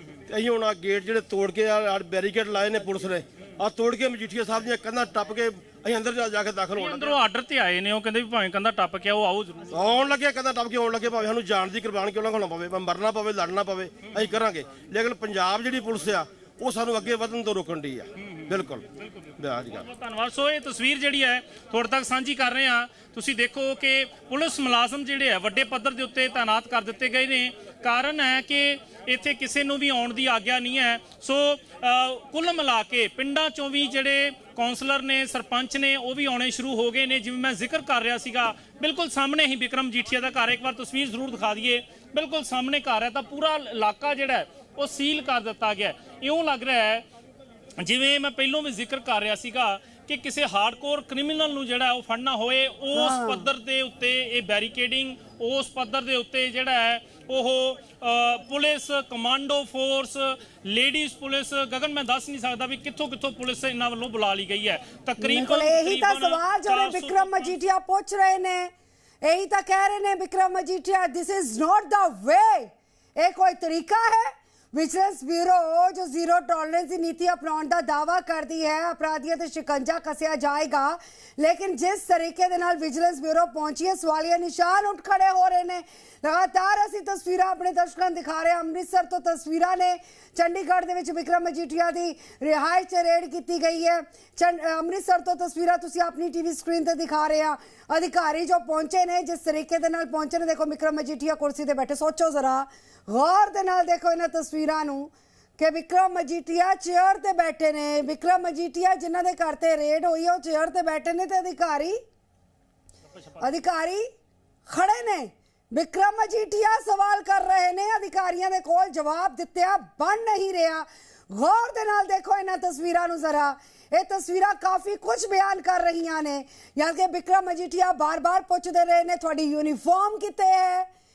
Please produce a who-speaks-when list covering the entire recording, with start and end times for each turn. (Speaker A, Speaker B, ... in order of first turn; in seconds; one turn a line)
Speaker A: 0.3-7.2
Speaker B: 6.8-9.7
Speaker A: 9.7-18.9
Speaker B: 18.2-47.0
Speaker A: 19.4-19.9
Speaker B: 47.8-67.6
Speaker C: 52.9-53.5
Speaker C: 65.2-68.7
Speaker C: 69.2-112.0
Speaker C: 113.4-114.1
Speaker C: 114.7-130.9